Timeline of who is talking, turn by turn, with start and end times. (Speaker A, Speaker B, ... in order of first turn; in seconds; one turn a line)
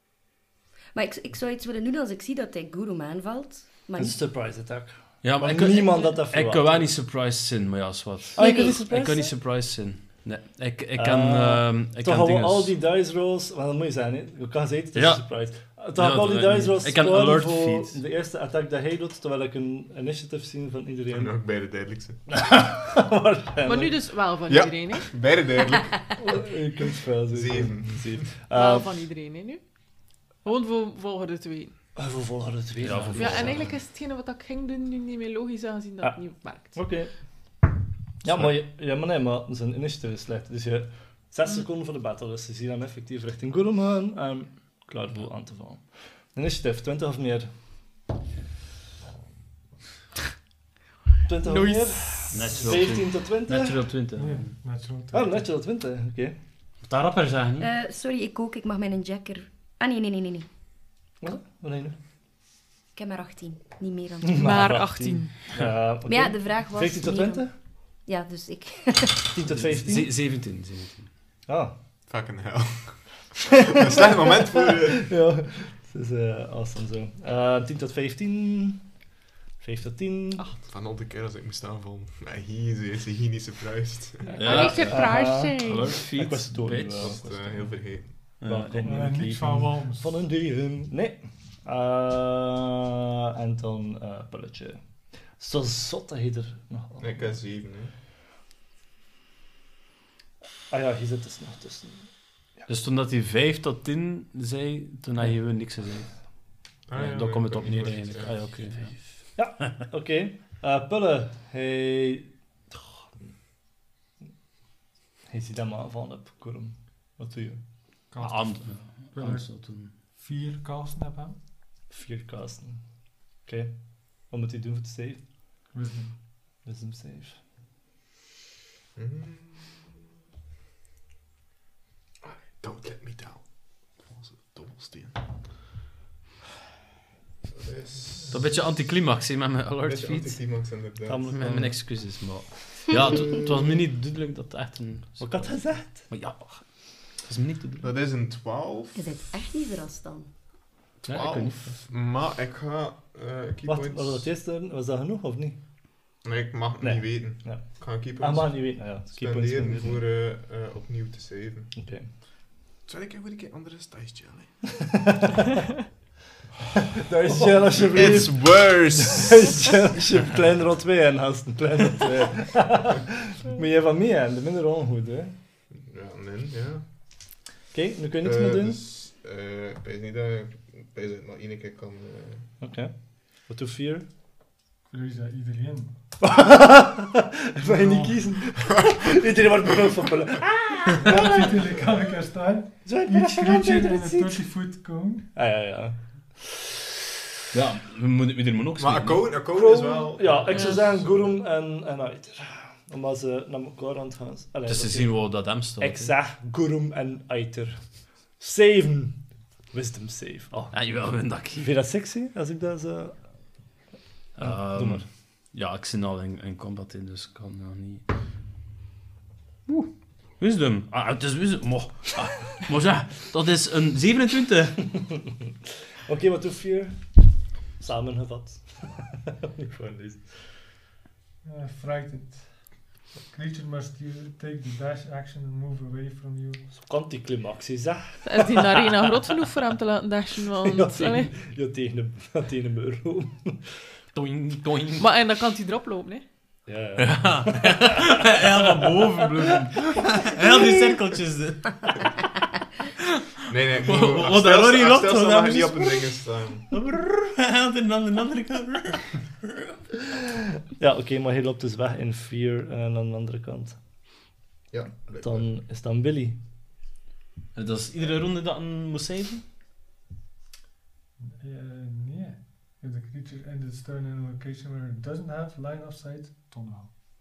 Speaker A: 0.9-4.2
Speaker B: 4.0-6.9
Speaker C: 5.2-12.7
Speaker B: 8.4-9.3
Speaker A: 8.4-8.8
Speaker B: 11.0-21.4
Speaker C: 14.9-18.0
Speaker D: 21.1-22.2
Speaker B: 22.3-24.0
Speaker E: 23.6-25.1
Speaker D: 24.5-26.2
Speaker B: 26.2-28.9
Speaker D: 27.3-28.2
Speaker E: 28.5-29.6
Speaker E: 30.4-31.7
Speaker B: 32.0-33.7
Speaker C: 32.8-33.7
Speaker E: 33.1-36.8
Speaker B: 36.8-37.1
Speaker B: 38.2-45.8
Speaker B: 46.3-47.5
Speaker B: 51.3-53.9
Speaker E: 51.5-52.4
Speaker C: 52.3-54.5
Speaker F: 54.1-55.4
Speaker B: 55.1-56.4
Speaker C: 56.8-57.7
Speaker A: 57.6-60.5
Speaker B: 61.2-62.0
Speaker A: 63.0-64.5
Speaker B: 64.3-67.5
Speaker E: 64.3-65.5
Speaker A: 66.1-67.5
Speaker A: 68.0-69.3
Speaker B: 69.3-70.1
Speaker C: 69.6-71.1
Speaker B: 71.5-71.8
Speaker D: 72.1-75.1
Speaker B: 73.7-78.9
Speaker B: 79.6-80.5
Speaker D: 80.7-84.5
Speaker B: 84.3-87.7
Speaker C: 84.4-87.2
Speaker E: 84.4-86.0
Speaker D: 87.0-88.2
Speaker C: 88.4-89.0
Speaker B: 88.4-94.8
Speaker F: 88.8-90.2
Speaker B: 95.4-97.2
Speaker D: 97.0-97.9
Speaker B: 100.7-102.7
Speaker C: 102.7-106.1
Speaker D: 106.9-108.4
Speaker C: 106.9-109.0
Speaker B: 109.4-113.0
Speaker B: 115.3-117.6
Speaker F: 118.1-121.4
Speaker C: 118.2-119.9
Speaker B: 121.9-122.8
Speaker B: 123.5-125.3
Speaker F: 125.7-126.2
Speaker B: 126.7-127.4
Speaker D: 129.0-130.0
Speaker D: 132.2-135.2
Speaker D: 137.5-138.5
Speaker C: 138.3-140.4
Speaker D: 139.8-141.4
Speaker B: 141.1-141.8
Speaker C: 141.3-147.9
Speaker D: 142.9-143.8
Speaker B: 145.2-146.1
Speaker D: 147.8-149.0
Speaker A: 149.0-150.3
Speaker C: 151.0-151.8
Speaker D: 151.1-154.3
Speaker B: 153.7-155.6
Speaker D: 156.2-161.7
Speaker B: 156.8-157.7
Speaker B: 158.2-160.0
Speaker B: 161.8-162.1
Speaker D: 162.9-164.6
Speaker B: 165.0-165.4
Speaker B: 166.9-175.3
Speaker D: 167.4-169.6
Speaker D: 175.7-176.8
Speaker B: 177.7-178.8
Speaker D: 178.2-182.5
Speaker B: 182.6-184.1
Speaker F: 184.9-186.0
Speaker B: 186.2-191.8
Speaker F: 187.6-188.3
Speaker D: 188.6-190.1
Speaker F: 191.0-195.3
Speaker B: 192.8-194.4
Speaker B: 195.3-196.8
Speaker C: 197.5-199.3
Speaker D: 198.8-201.4
Speaker B: 199.5-205.1
Speaker C: 204.7-206.1
Speaker B: 205.8-207.8
Speaker B: 208.4-210.8
Speaker C: 210.7-211.7
Speaker B: 211.6-213.2
Speaker C: 214.4-218.0
Speaker B: 214.4-215.1
Speaker C: 219.7-224.9
Speaker B: 224.9-225.3
Speaker B: 226.1-227.0
Speaker B: 227.8-230.5
Speaker F: 231.4-232.8
Speaker F: 233.3-236.7
Speaker B: 236.7-239.2
Speaker E: 238.2-241.3
Speaker B: 240.6-243.7
Speaker C: 244.2-245.1
Speaker E: 245.0-246.2
Speaker B: 246.7-249.2
Speaker C: 247.0-252.3
Speaker D: 253.5-256.7
Speaker C: 253.7-256.1
Speaker C: 256.7-259.2
Speaker B: 260.8-263.8
Speaker D: 264.7-265.5
Speaker B: 265.2-266.4
Speaker C: 267.6-269.4
Speaker F: 271.2-276.9